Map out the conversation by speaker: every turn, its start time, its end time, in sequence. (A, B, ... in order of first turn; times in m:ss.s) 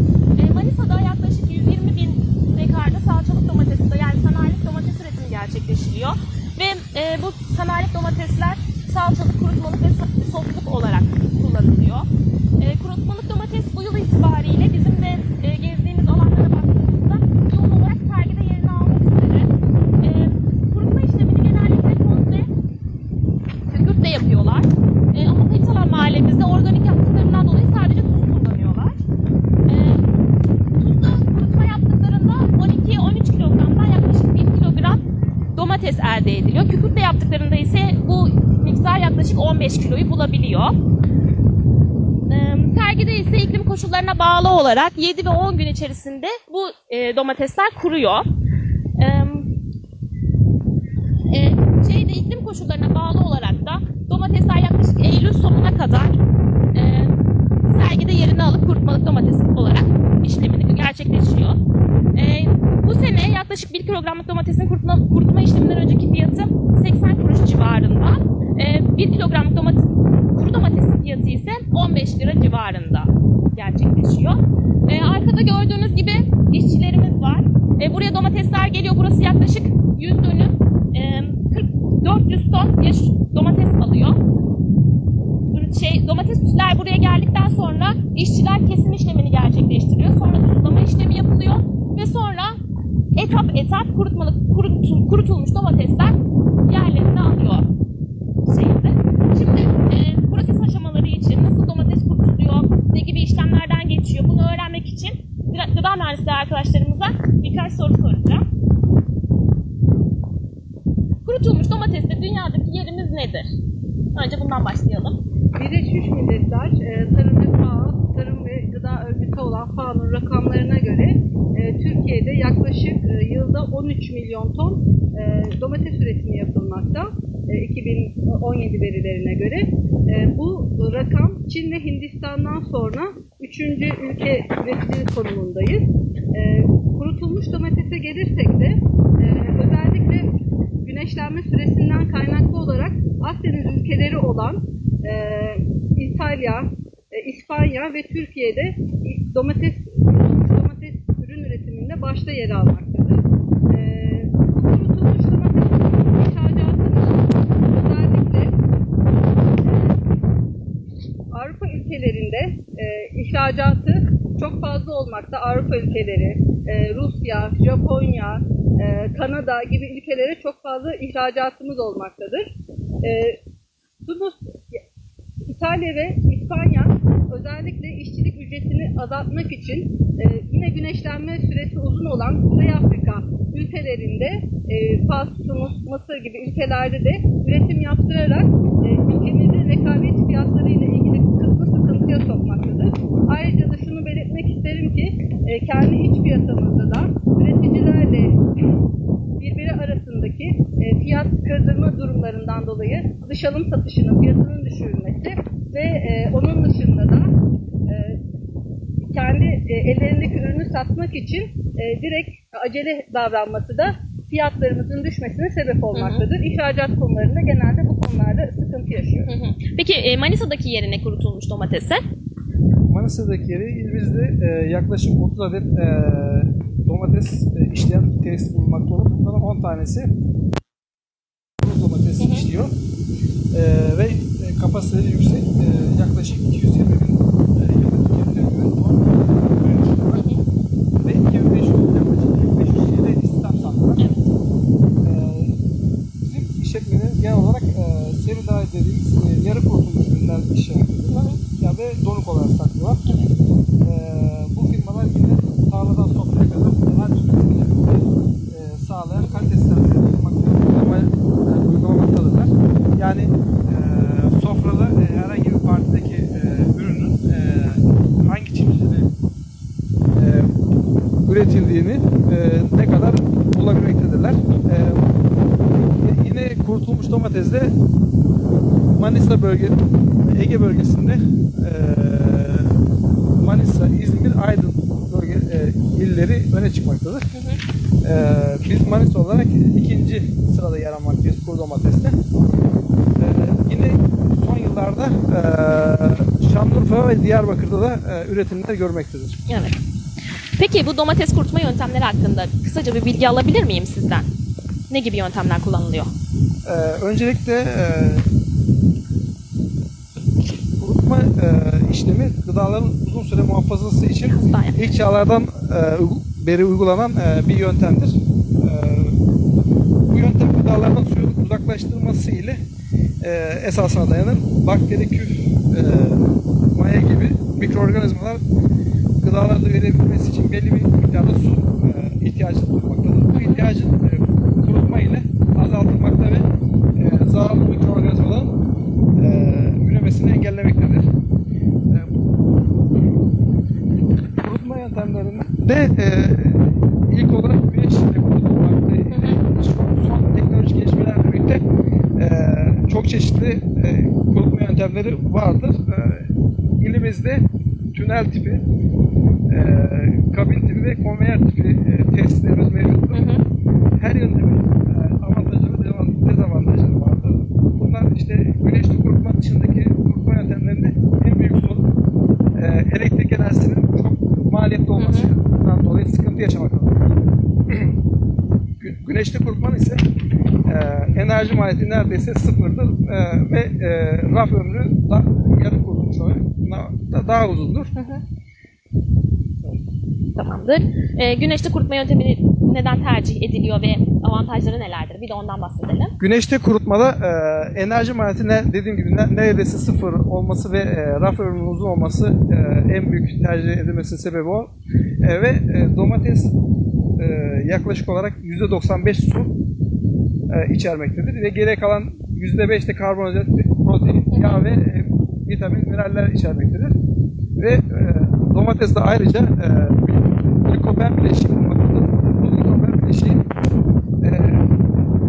0:00.4-0:12.0 A
0:12.6-0:19.5 A
0:20.0-0:22.5 A
0:23.7-0:29.0 A
0:29.7-0:30.0 A
0:30.8-0:35.0 A
0:35.5-0:40.7 A
0:42.3-0:48.2 A
0:49.0-0:49.5 A
0:51.3-0:56.2 A
0:56.7-0:57.1 A
0:57.6-1:01.6 A
1:02.1-1:24.2 A
1:25.5-1:32.6 A
1:33.1-1:36.1 A
1:36.6-1:37.6 A
1:38.4-1:48.4 A
1:51.2-1:53.5 A
1:54.1-1:55.2 A
1:55.6-2:20.3 B
2:20.8-2:38.5 B
2:39.6-2:40.0 B
2:41.3-2:53.4 B
2:54.0-2:54.8 B
2:55.4-3:18.4 B
3:19.4-3:27.3 B
3:27.9-3:28.2 B
3:29.0-3:39.3 B
3:35.9-3:36.2 A
3:39.2-3:42.0 A
3:42.8-3:50.1 C
3:51.6-3:52.7 C
3:52.2-3:52.5 A
3:53.5-4:00.2 C
4:00.1-4:00.4 A
4:01.0-4:04.0 C
4:04.0-4:04.2 A
4:05.0-4:05.6 C
4:06.2-4:13.0 C
4:11.1-4:11.4 A
4:13.0-4:13.3 A
4:13.8-4:29.1 C
4:19.2-4:19.5 A
4:30.1-4:30.5 C
4:31.2-4:35.1 C
4:35.7-4:37.7 C
4:39.0-4:42.8 C
4:43.4-4:47.2 C
4:47.3-4:47.6 A
4:48.0-4:52.2 C
4:53.2-4:59.4 C
4:59.5-4:59.8 A
5:00.6-5:04.2 A
5:04.9-5:06.1 A
5:06.6-5:08.2 C
5:10.8-5:19.2 C
5:14.3-5:14.9 A
5:20.1-5:22.6 C
5:23.2-5:28.4 C
5:29.2-5:38.6 C
5:33.3-5:33.6 A
5:39.2-5:41.0 C
5:44.4-5:51.6 C
5:49.1-5:49.4 A
5:52.2-5:57.4 C
5:57.9-5:58.6 C
5:59.5-6:03.3 C
6:03.1-6:03.4 A
6:04.0-6:11.8 C
6:12.5-6:17.1 C
6:15.0-6:15.3 A
6:17.7-6:18.0 C
6:18.8-6:20.0 C
6:20.6-6:27.9 C
6:27.9-6:28.2 A
6:30.3-6:36.1 A
6:36.2-6:46.5 C
6:47.2-6:49.5 C
6:50.5-6:56.9 C
6:54.3-6:54.6 A
6:57.6-7:03.4 C
7:04.2-7:04.7 C